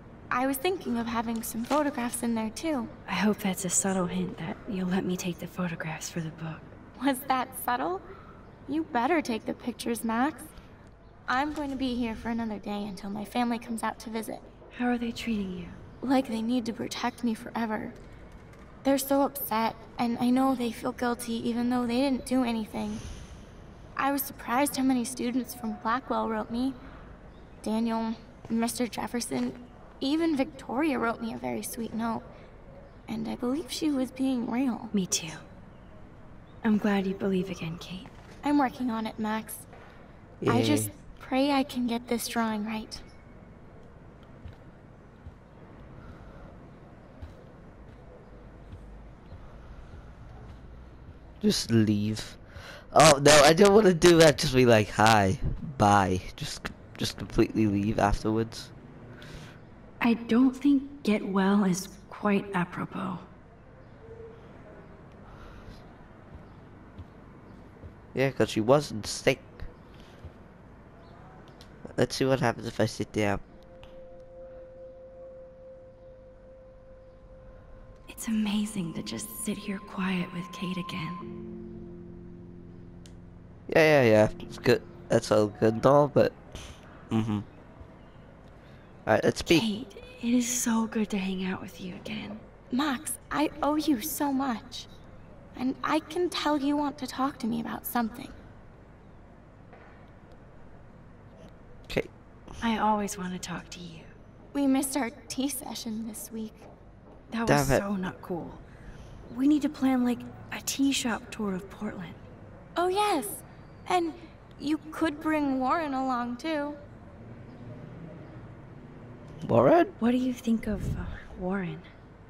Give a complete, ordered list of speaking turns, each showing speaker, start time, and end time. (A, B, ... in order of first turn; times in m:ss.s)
0:00.3-0:02.9 A
0:03.1-0:06.8 B
0:07.0-0:08.0 A
0:08.7-0:10.5 A
0:11.3-0:14.4 A
0:14.7-0:15.8 B
0:16.0-0:18.0 A
0:18.8-0:23.0 A
0:24.0-0:26.8 A
0:27.6-0:32.2 A
0:33.1-0:34.9 A
0:34.9-0:35.4 B
0:36.6-0:38.1 B
0:38.4-0:39.7 A
0:40.4-0:40.9 C
0:40.5-0:43.0 A
0:51.4-0:58.7 C
1:00.0-1:03.2 B
1:08.1-1:09.7 C
1:11.9-1:13.4 C
1:18.1-1:21.2 B
1:23.7-1:26.4 C
1:27.1-1:27.5 C
1:29.0-1:29.7 C
1:29.5-1:32.4 B
1:32.7-1:34.9 A
1:35.5-1:38.4 A
1:42.6-1:44.1 B
1:44.5-1:46.7 A
1:47.3-1:48.6 B
1:47.5-1:47.8 C
1:49.2-1:52.2 B
1:52.8-1:56.8 A
1:59.4-1:59.9 C
2:00.0-2:01.9 B